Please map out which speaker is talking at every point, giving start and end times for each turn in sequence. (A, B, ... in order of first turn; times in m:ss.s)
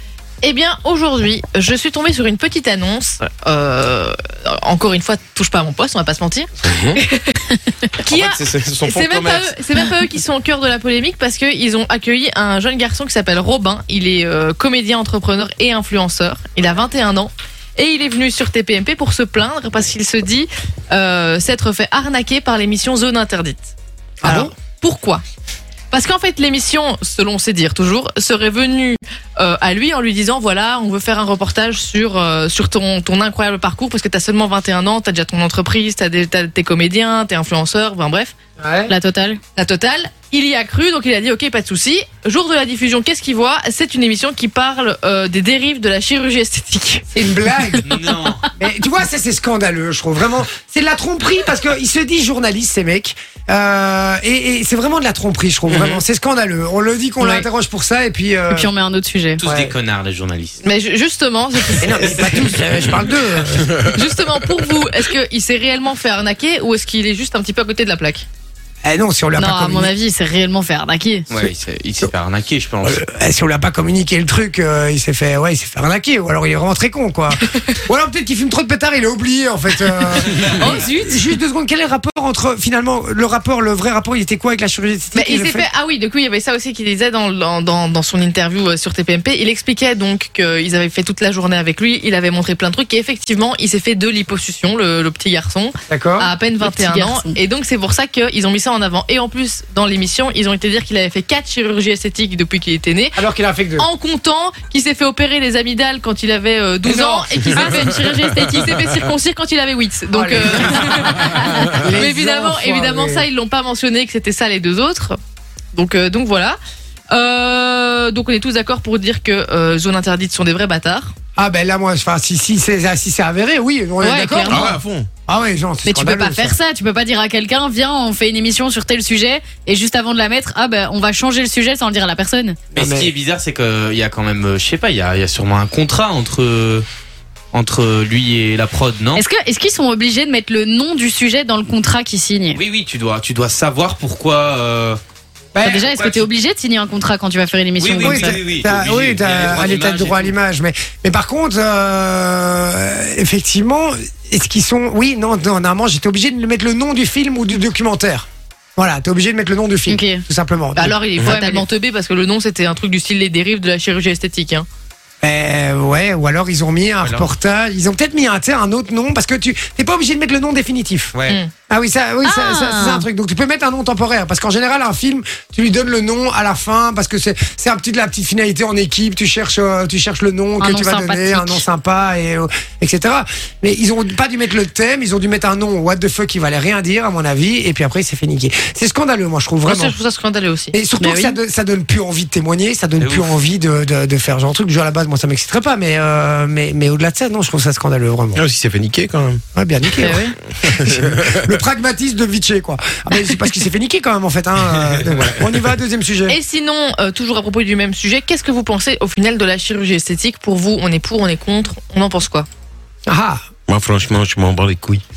0:00.4-0:06.5 A
0:06.6-0:07.0 B
0:07.1-0:07.4 A
0:08.0-0:23.7 A
0:08.0-0:09.5 B
0:24.2-0:24.5 C
0:24.2-0:25.2 A
0:25.9-0:38.4 A
0:38.6-0:38.9 C
0:38.9-0:39.4 D
0:39.6-0:47.1 A
0:47.1-0:47.8 C
0:47.8-0:48.4 E
0:48.6-0:58.7 C
0:55.7-0:56.0 E
0:57.2-0:57.4 D
0:58.5-0:59.4 D
0:59.4-1:00.6 E
0:59.4-0:59.7 C
1:00.6-1:02.5 A
1:01.8-1:03.8 C
1:01.9-1:02.3 E
1:03.6-1:08.2 A
1:08.8-1:09.9 C
1:09.3-1:11.3 D
1:11.3-1:13.0 E
1:12.8-1:25.6 C
1:20.5-1:21.4 A
1:25.1-1:43.2 A
1:35.9-1:36.3 C
1:36.6-1:37.4 D
1:43.2-1:43.9 C
1:43.8-1:55.2 A
1:46.8-1:47.8 C
1:47.6-1:48.4 B
1:50.1-1:53.2 C
1:55.7-1:56.6 A
1:57.1-2:01.1 A
2:01.4-2:04.8 C
2:04.0-2:04.7 D
2:04.5-2:05.1 B
2:05.3-2:06.6 C
2:05.8-2:12.7 D
2:12.7-2:13.1 C
2:12.7-2:16.8 E
2:17.5-2:19.2 E
2:19.1-2:22.6 D
2:22.5-2:25.0 E
2:25.5-2:25.9 C
2:25.6-2:28.4 D
2:25.7-2:26.3 E
2:27.8-2:30.3 E
2:28.0-2:40.9 C
2:39.9-2:40.2 D
2:40.7-2:44.6 A
2:41.3-2:41.6 D
2:45.2-2:51.1 C
2:47.0-2:47.3 E
2:51.7-3:09.9 C
2:52.2-2:53.1 D
3:00.6-3:01.6 D
3:09.6-3:10.8 A
3:10.7-3:18.4 C
3:11.0-3:11.4 D
3:13.0-3:13.4 E
3:18.4-3:19.4 B
3:19.5-3:26.4 C
3:20.0-3:20.3 D
3:20.6-3:21.4 B
3:25.1-3:25.6 B
3:26.3-3:32.5 A
3:33.1-3:33.4 C
3:33.7-3:35.0 B